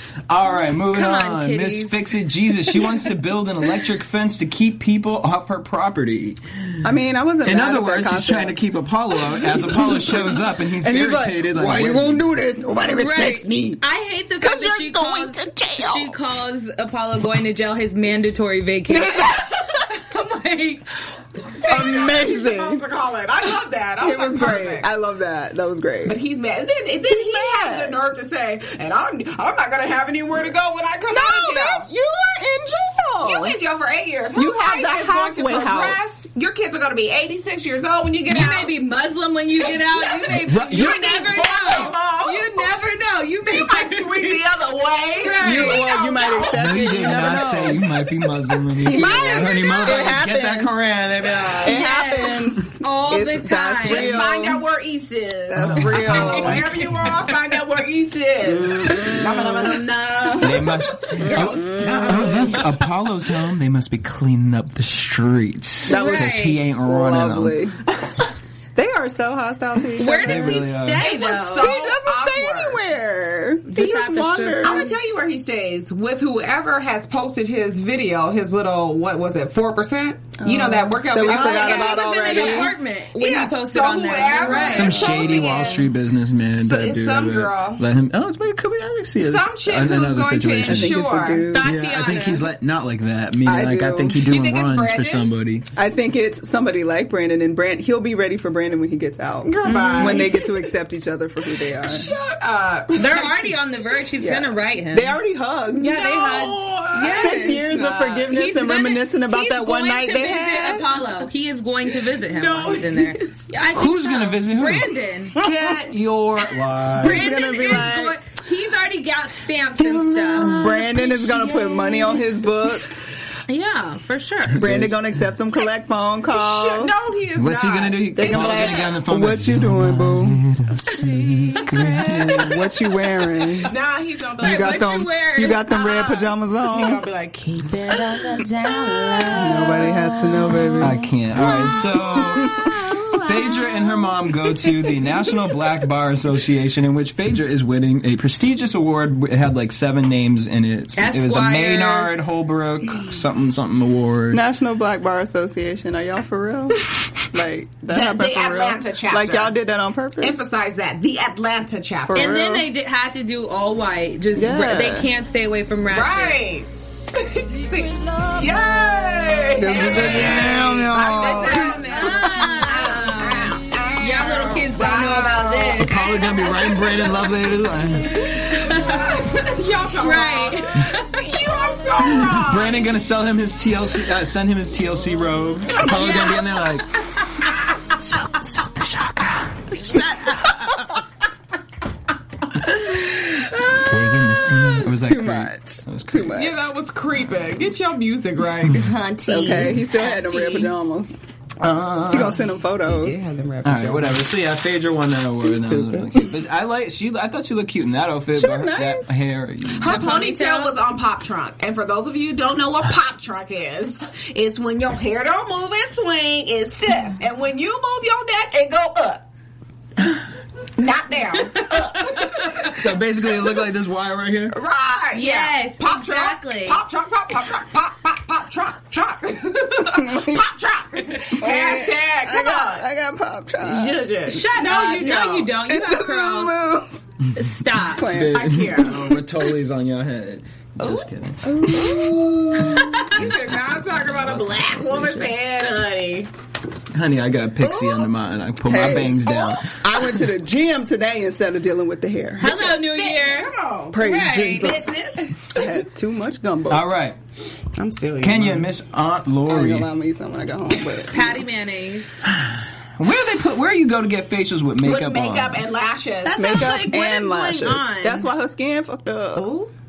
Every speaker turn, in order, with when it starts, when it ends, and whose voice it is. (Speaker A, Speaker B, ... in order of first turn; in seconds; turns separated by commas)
Speaker A: 0.3-6.8, Speaker B: 0.9-2.1, Speaker C: 6.8-8.7, Speaker A: 7.4-12.3, Speaker C: 9.3-13.8, Speaker B: 13.0-21.7, Speaker C: 14.4-16.1, Speaker C: 18.9-19.7, Speaker D: 21.7-24.9, Speaker C: 21.7-22.8, Speaker C: 24.0-26.2, Speaker D: 26.1-31.9, Speaker C: 27.1-27.9, Speaker C: 31.1-33.6, Speaker D: 33.2-38.8, Speaker C: 34.4-36.0, Speaker B: 38.3-44.4, Speaker D: 39.6-42.8, Speaker A: 40.3-41.0, Speaker D: 43.5-47.4, Speaker B: 45.2-46.5, Speaker C: 45.4-48.0, Speaker A: 46.5-51.9, Speaker C: 48.8-50.8, Speaker B: 48.9-49.5, Speaker D: 49.0-50.1, Speaker C: 51.5-54.6, Speaker B: 51.7-54.2, Speaker D: 53.8-62.7, Speaker C: 55.5-56.9, Speaker A: 55.6-57.2, Speaker C: 58.5-60.5, Speaker A: 60.4-67.6, Speaker C: 61.2-62.6, Speaker C: 65.9-67.8, Speaker B: 65.9-66.6, Speaker C: 68.8-70.6, Speaker B: 70.0-71.7, Speaker A: 70.2-71.1, Speaker D: 71.0-72.8, Speaker C: 71.6-74.9, Speaker B: 73.7-74.9, Speaker D: 74.6-85.9, Speaker C: 80.4-82.7, Speaker B: 81.2-85.1, Speaker C: 84.3-85.4, Speaker A: 84.7-91.0, Speaker D: 86.6-87.8, Speaker D: 89.2-91.5, Speaker C: 90.7-91.8, Speaker B: 91.5-92.5, Speaker A: 91.6-95.7, Speaker C: 93.4-94.2, Speaker D: 94.3-95.3, Speaker C: 95.7-102.1, Speaker D: 99.5-100.7, Speaker B: 99.6-100.3, Speaker D: 101.8-103.5, Speaker B: 102.9-105.2, Speaker C: 104.2-106.0, Speaker B: 105.8-115.4, Speaker D: 105.8-107.9, Speaker C: 107.0-110.9, Speaker D: 112.2-113.5, Speaker A: 113.7-117.4, Speaker C: 115.4-115.9, Speaker B: 117.0-120.6, Speaker C: 117.0-118.2, Speaker A: 119.8-121.1, Speaker C: 120.5-122.9, Speaker B: 121.1-122.2, Speaker B: 123.5-124.7, Speaker A: 124.6-125.0, Speaker C: 124.6-126.9, Speaker D: 126.3-129.0, Speaker A: 127.3-132.7, Speaker C: 128.2-130.4, Speaker D: 130.9-132.5, Speaker C: 132.1-133.8, Speaker D: 133.6-134.9, Speaker C: 134.4-137.0, Speaker B: 134.4-136.0, Speaker D: 135.7-144.1, Speaker B: 139.1-139.9, Speaker C: 139.2-142.7, Speaker A: 140.8-142.6, Speaker A: 143.2-154.4, Speaker B: 151.0-152.1, Speaker C: 154.3-160.4, Speaker D: 157.9-159.6, Speaker D: 160.2-162.4, Speaker C: 162.1-162.7, Speaker B: 162.2-166.4, Speaker C: 164.3-165.1, Speaker D: 165.9-177.1, Speaker C: 169.6-172.5, Speaker B: 169.8-170.5, Speaker A: 170.1-170.5, Speaker B: 171.1-176.0, Speaker A: 175.8-178.2, Speaker B: 178.1-179.2, Speaker D: 178.6-182.8, Speaker B: 180.0-181.4, Speaker A: 182.0-186.9, Speaker A: 188.0-190.6, Speaker A: 193.8-196.5, Speaker C: 194.9-196.7, Speaker D: 196.3-200.7, Speaker C: 199.3-201.2, Speaker A: 201.6-202.4, Speaker C: 202.1-203.2, Speaker D: 202.8-204.3, Speaker A: 203.6-210.1, Speaker D: 205.4-206.2, Speaker C: 208.3-209.1, Speaker D: 209.8-219.2, Speaker B: 209.8-210.7, Speaker D: 220.8-222.8, Speaker A: 222.6-224.6, Speaker D: 224.5-232.9, Speaker B: 225.1-226.8, Speaker C: 229.8-230.4, Speaker C: 231.4-234.0, Speaker D: 233.6-235.5, Speaker B: 234.3-236.6, Speaker C: 235.6-236.9, Speaker B: 237.3-238.1, Speaker C: 237.9-239.2, Speaker A: 238.0-241.7, Speaker D: 238.3-239.2, Speaker D: 240.8-241.1, Speaker C: 241.4-243.1, Speaker A: 242.6-245.3, Speaker B: 242.7-243.1, Speaker D: 243.0-246.3, Speaker A: 246.9-250.1, Speaker D: 247.6-248.1, Speaker C: 248.7-252.7, Speaker B: 252.4-254.9, Speaker D: 252.4-255.6, Speaker C: 253.9-256.9, Speaker A: 256.7-257.2, Speaker D: 257.8-258.7, Speaker A: 258.2-259.9, Speaker C: 259.5-261.4, Speaker B: 261.1-262.1, Speaker A: 262.2-265.6, Speaker D: 264.8-266.6, Speaker B: 266.2-268.3, Speaker C: 266.4-269.5, Speaker D: 269.4-269.7